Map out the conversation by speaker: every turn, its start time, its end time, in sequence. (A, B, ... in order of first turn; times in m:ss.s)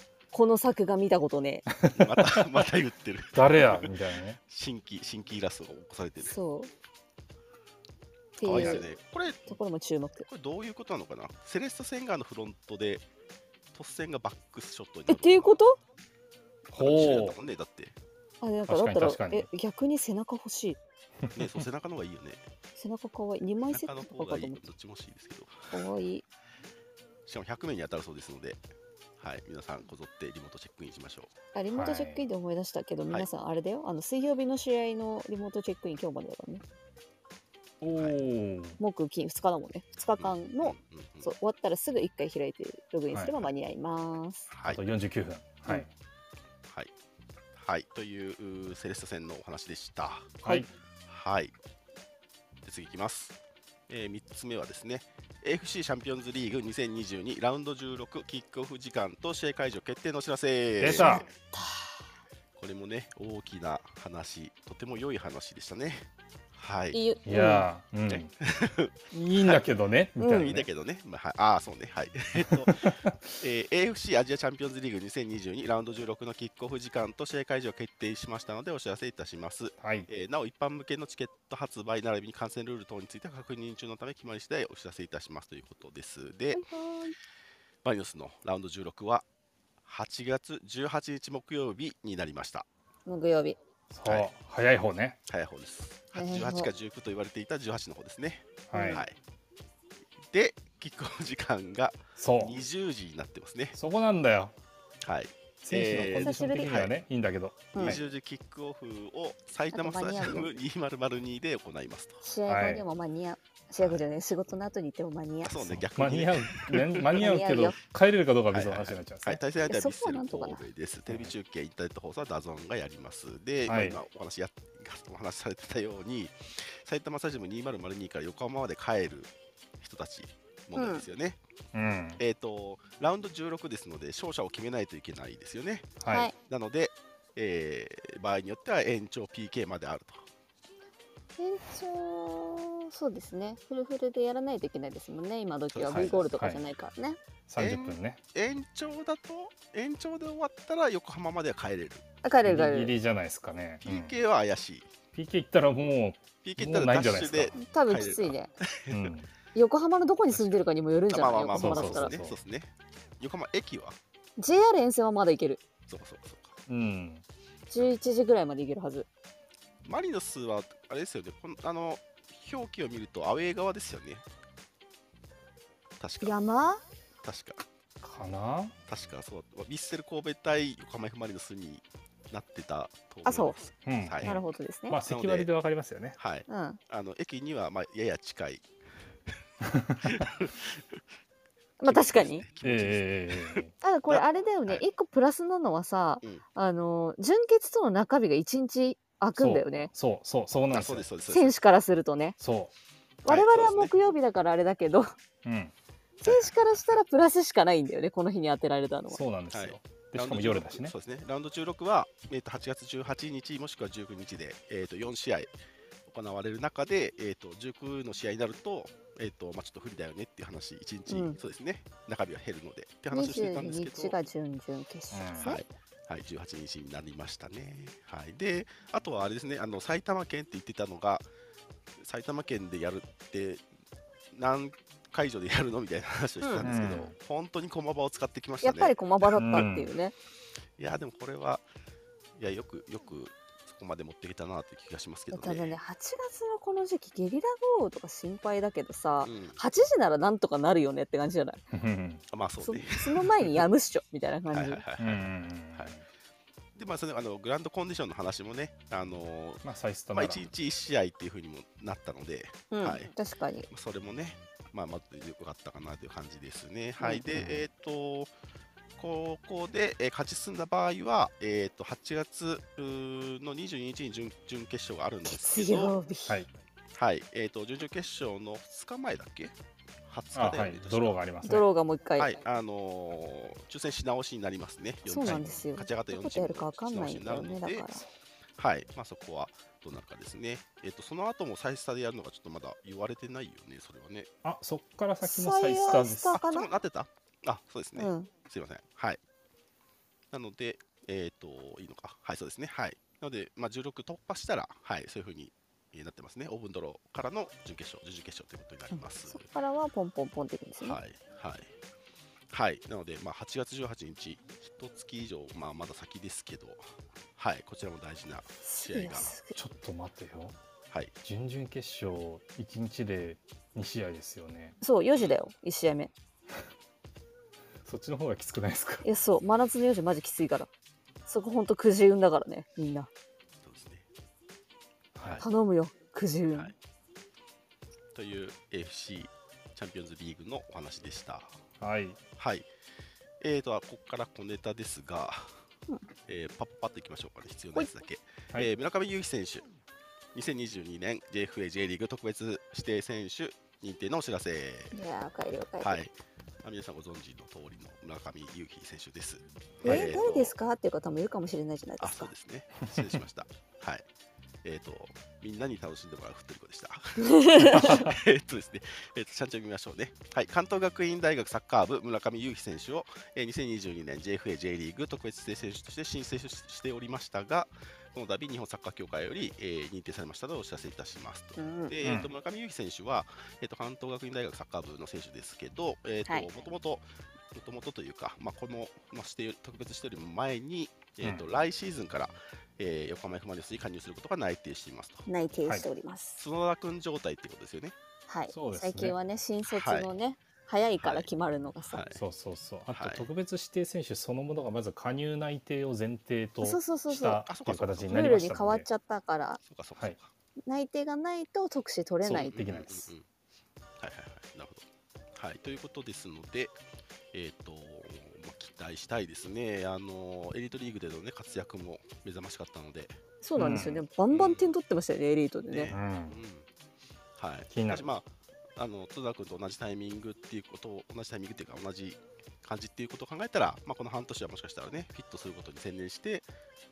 0:00.3-0:01.7 A
0:01.8-0:02.6 B
0:01.9-0:03.9 C
0:03.3-0:04.4 B
0:04.5-0:06.4 C
0:06.2-0:06.7 A
0:08.4-0:08.9 A
0:08.4-0:09.6 C
0:09.5-0:10.2 A
0:10.2-0:13.0 C
0:13.7-0:15.6 C
0:15.1-0:15.8 A
0:16.7-0:17.4 B
0:16.8-0:18.0 C
0:18.4-0:20.8 A
0:18.7-0:19.5 B
0:21.2-0:21.6 B
0:21.3-0:22.4 C
0:22.8-0:24.6 A
0:23.7-0:25.8 C
0:25.7-0:26.2 A
0:27.2-0:28.6 C
0:29.2-0:31.3 C
0:31.5-0:36.6 A
0:31.7-0:32.3 B
0:37.8-0:38.8 B
0:38.0-0:38.2 C
0:38.8-0:44.5 A
0:40.2-0:41.3 C
0:44.5-0:44.8 C
0:44.6-0:45.9 B
0:47.6-0:50.4 C
0:50.4-0:50.7 B
0:51.1-0:51.5 C
0:52.6-1:01.3 C
1:00.8-1:01.2 B
1:00.9-1:02.0 A
1:02.6-1:07.0 C
1:06.9-1:07.7 A
1:07.2-1:08.3 B
1:08.1-1:09.7 C
1:09.1-1:10.7 B
1:10.2-1:10.5 A
1:10.4-1:26.6 C
1:12.5-1:13.3 B
1:19.8-1:20.1 B
1:26.5-1:27.1 A
1:27.8-1:29.2 C
1:29.8-1:32.7 C
1:33.0-1:33.6 A
1:33.9-1:35.2 B
1:35.3-1:39.2 C
1:36.1-1:36.7 A
1:38.7-1:39.0 B
1:38.7-1:39.0 A
1:40.3-1:43.8 C
1:42.2-1:42.6 B
1:43.7-1:44.5 B
1:45.0-1:46.9 C
1:45.6-1:48.0 B
1:46.2-1:46.7 A
1:47.7-1:48.0 A
1:47.8-1:52.2 C
1:49.7-1:50.5 A
1:52.2-1:55.6 A
1:52.5-1:52.8 B
1:55.4-1:57.4 C
1:55.7-1:59.4 B
1:57.2-1:57.8 A
1:58.5-2:11.4 C
1:59.7-2:00.6 A
2:01.1-2:01.3 B
2:03.6-2:04.0 B
2:10.8-2:11.0 A
2:11.7-2:12.2 B
2:12.2-2:20.2 C
2:16.0-2:16.3 B
2:16.1-2:16.3 A
2:21.4-2:27.2 A
2:25.7-2:26.3 C
2:25.9-2:26.6 B
2:27.5-2:28.2 B
2:27.6-2:32.0 C
2:32.2-2:32.9 A
2:32.4-2:34.2 B
2:33.8-2:34.9 C
2:35.1-2:37.6 B
2:36.4-2:39.1 C
2:37.6-2:38.5 A
2:38.9-2:39.3 B
2:39.5-2:42.2 A
2:40.3-2:44.0 C
2:41.5-2:42.4 B
2:44.4-2:45.6 A
2:45.9-2:46.6 C
2:46.7-2:47.2 B
2:47.7-2:49.1 A
2:49.8-2:54.2 C
2:56.0-2:56.3 C
2:56.2-2:56.8 A
2:57.2-2:57.6 C
2:58.0-2:58.8 B
2:58.9-3:04.4 C
3:03.2-3:03.6 A
3:03.8-3:06.2 B
3:04.2-3:05.0 A
3:05.0-3:05.5 C
3:06.2-3:08.7 C
3:06.5-3:06.8 A
3:09.6-3:10.0 B
3:10.0-3:11.0 C
3:11.8-3:12.4 A
3:11.8-3:14.8 C
3:12.6-3:13.7 B
3:13.8-3:19.9 A
3:19.4-3:21.0 B
3:20.7-3:21.6 C
3:21.3-3:22.4 A
3:22.4-3:22.7 B
3:23.2-3:25.1 A
3:23.3-3:23.9 C
3:25.4-3:25.7 B
3:26.2-3:29.2 A
3:26.2-3:26.5 C
3:29.1-3:31.0 B
3:29.5-3:35.5 C
3:36.1-3:44.2 C
3:41.1-3:41.4 A
3:43.1-3:45.6 A
3:45.1-3:45.6 B
3:45.4-3:51.2 C
3:52.0-3:53.6 C
3:54.3-3:59.0 C
3:56.4-3:56.7 A
3:56.6-3:57.1 B
3:58.6-4:00.1 A
3:59.4-3:59.9 B
4:00.8-4:01.6 C
4:02.4-4:05.8 C
4:05.3-4:11.6 A
4:09.2-4:09.6 C
4:11.7-4:12.2 B
4:12.3-4:13.5 C
4:12.6-4:14.8 A
4:14.5-4:15.9 C
4:15.0-4:16.0 B
4:16.8-4:23.1 C
4:19.6-4:20.4 B
4:22.7-4:23.7 A
4:23.7-4:28.3 C
4:27.0-4:27.3 A
4:27.3-4:27.6 B
4:29.0-4:36.0 C
4:35.2-4:36.4 A
4:36.9-4:39.5 C
4:40.0-4:41.2 C
4:40.3-4:41.6 B
4:41.4-4:42.4 A
4:42.2-4:47.9 C
4:45.0-4:48.0 A
4:48.6-4:54.3 C
4:54.4-4:56.4 B
4:55.2-4:56.7 A
4:56.3-4:59.2 C
4:58.0-4:58.3 A
5:00.3-5:09.5 C
5:08.9-5:11.0 A
5:10.8-5:11.7 C
5:12.5-5:16.8 C
5:17.4-5:19.4 C
5:18.6-5:19.6 A
5:19.5-5:20.6 B
5:21.2-5:24.8 B
5:24.8-5:26.1 A
5:27.8-5:29.0 B
5:29.0-5:30.7 A
5:31.2-5:33.1 A
5:33.6-5:34.0 C
5:35.2-5:35.4 B
5:35.4-5:36.7 A
5:38.1-5:41.6 C
5:41.8-5:42.2 B
5:42.4-5:42.7 C
5:43.4-5:45.6 C
5:46.3-5:49.7 C
5:50.3-5:55.0 C
5:54.9-5:56.0 A
5:55.8-6:00.5 C
5:59.8-6:02.3 A
5:59.8-6:00.2 B
6:02.0-6:04.0 C
6:02.9-6:03.2 B
6:04.6-6:35.3 C
6:07.2-6:08.0 A
6:07.7-6:08.1 B
6:21.6-6:21.9 A
6:22.0-6:22.3 B
6:35.3-6:36.4 A
6:36.4-6:38.0 C
6:38.3-6:42.0 A
6:38.5-6:39.2 B
6:39.7-6:40.1 C
6:41.0-6:41.3 C
6:41.9-6:42.2 C
6:42.1-6:48.9 B
6:42.9-6:43.3 C
6:46.6-6:47.4 A
6:47.2-6:48.4 C
6:48.1-6:49.6 A
6:49.6-6:50.3 C
6:50.6-6:52.6 A
6:52.2-6:53.1 B
6:52.3-6:53.2 C
6:54.0-6:54.8 C
6:55.3-6:56.8 C
6:57.3-7:03.2 C
7:03.4-7:06.0 A
7:03.6-7:04.0 B
7:04.3-7:04.7 C
7:05.7-7:06.7 C
7:05.9-7:06.4 B
7:07.4-7:16.4 C
7:07.7-7:08.1 B